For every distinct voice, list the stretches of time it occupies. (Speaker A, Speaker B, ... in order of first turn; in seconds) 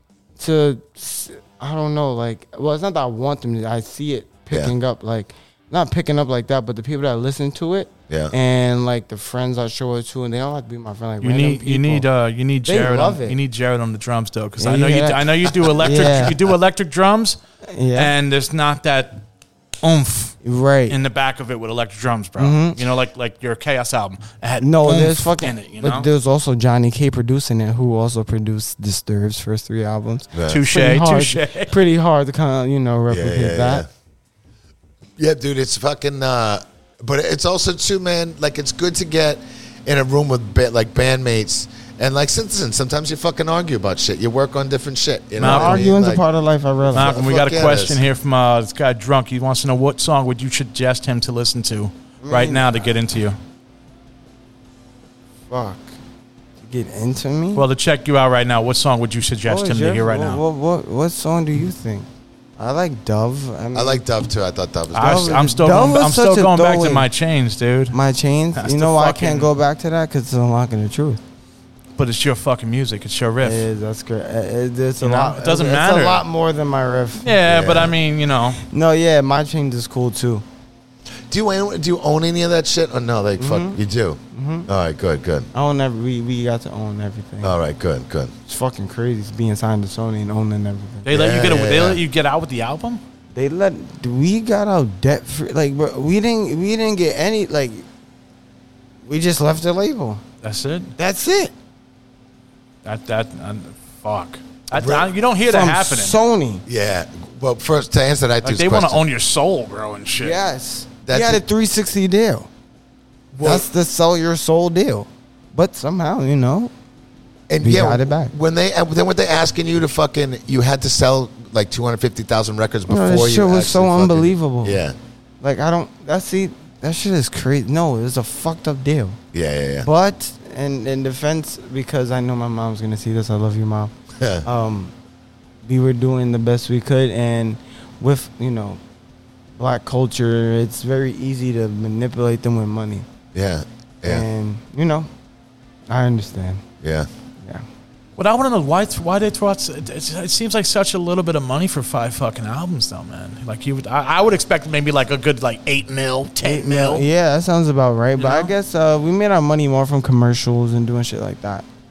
Speaker A: 0.4-12.1, 12.6-13.4, 14.6-16.4, 17.6-18.1, 20.4-21.0, 22.4-22.8, 24.6-33.9, 45.4-47.2, 52.2-52.9, 55.5-56.0, 56.6-57.7, 59.4-64.0, 65.0-67.1, 67.9-71.2, 73.4-77.4, 78.5-80.4, 83.4-83.8, 84.3-84.7, 85.5-87.6, 88.5-91.1, 93.3-97.8, 99.0-100.2, 101.0-101.5, 105.4-106.6, 110.2-112.5, 113.4-116.7, 117.6-118.3, 122.9-124.8, 125.4-129.2, 129.8-134.9, 135.6-138.8, 139.6-143.1, 144.0-145.1, 145.9-146.6, 156.4-161.7
Speaker B: 8.1-8.3, 30.3-30.6, 33.1-33.9, 35.2-46.2, 46.9-48.0, 63.7-65.5, 77.4-78.0, 81.3-85.5, 87.4-88.3, 91.0-92.0, 104.7-105.1, 106.7-109.0, 111.0-111.4, 113.4-113.7, 117.5-125.0, 129.3-129.9, 134.2-134.5, 143.3-144.2, 146.8-147.1
Speaker C: 11.2-17.4, 17.9-19.2, 19.8-20.4, 20.9-26.1, 30.4-31.8, 45.4-45.9, 46.9-53.4, 57.5-60.4, 64.9-68.0, 68.5-69.5, 72.0-73.7, 75.0-76.2, 77.2-78.6, 91.0-93.0, 100.4-100.9, 102.8-106.2, 108.4-110.4, 148.2-157.1, 158.2-158.5